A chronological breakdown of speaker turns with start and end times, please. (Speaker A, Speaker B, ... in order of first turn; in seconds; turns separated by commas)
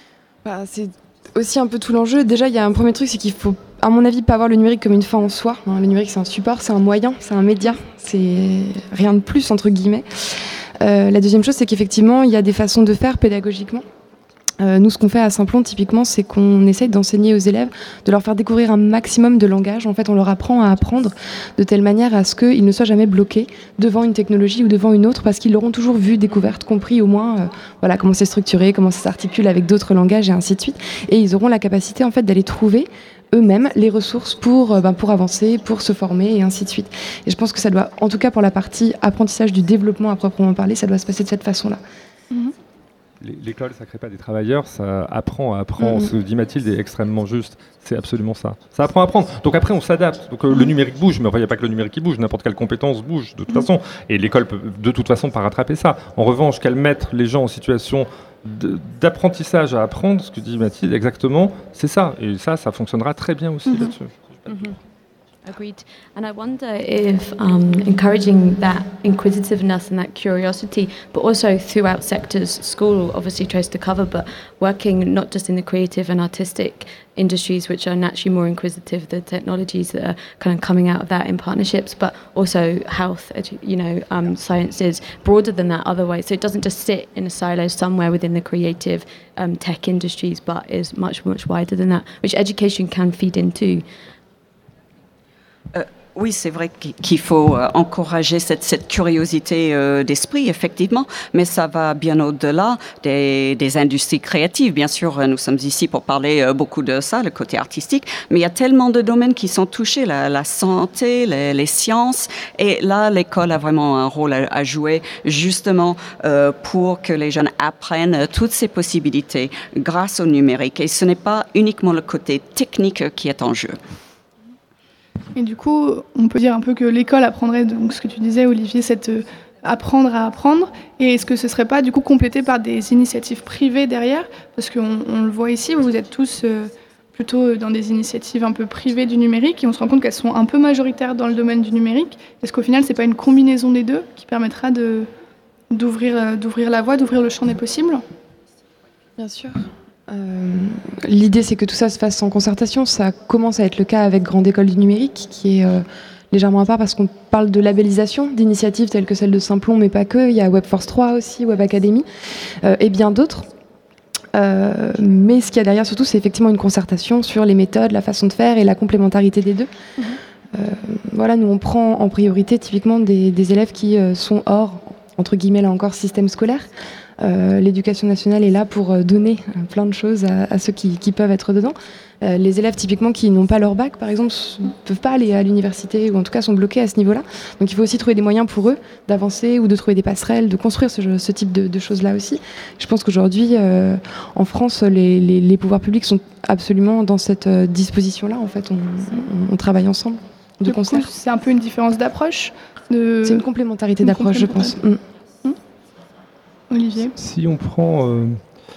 Speaker A: 0.4-13.8, Speaker A: 14.6-41.8, Speaker B: 43.2-64.5, Speaker A: 45.8-46.1, Speaker C: 64.5-64.7, Speaker C: 65.5-93.8, Speaker D: 95.7-123.8, Speaker E: 125.3-145.1, Speaker E: 145.7-148.0, Speaker A: 149.2-162.1, Speaker A: 162.6-163.5, Speaker A: 164.3-169.7, Speaker A: 170.5-176.7, Speaker A: 177.2-201.1, Speaker E: 200.7-203.4, Speaker A: 203.2-205.0, Speaker E: 204.0-204.8, Speaker E: 206.7-207.2, Speaker B: 207.2-208.4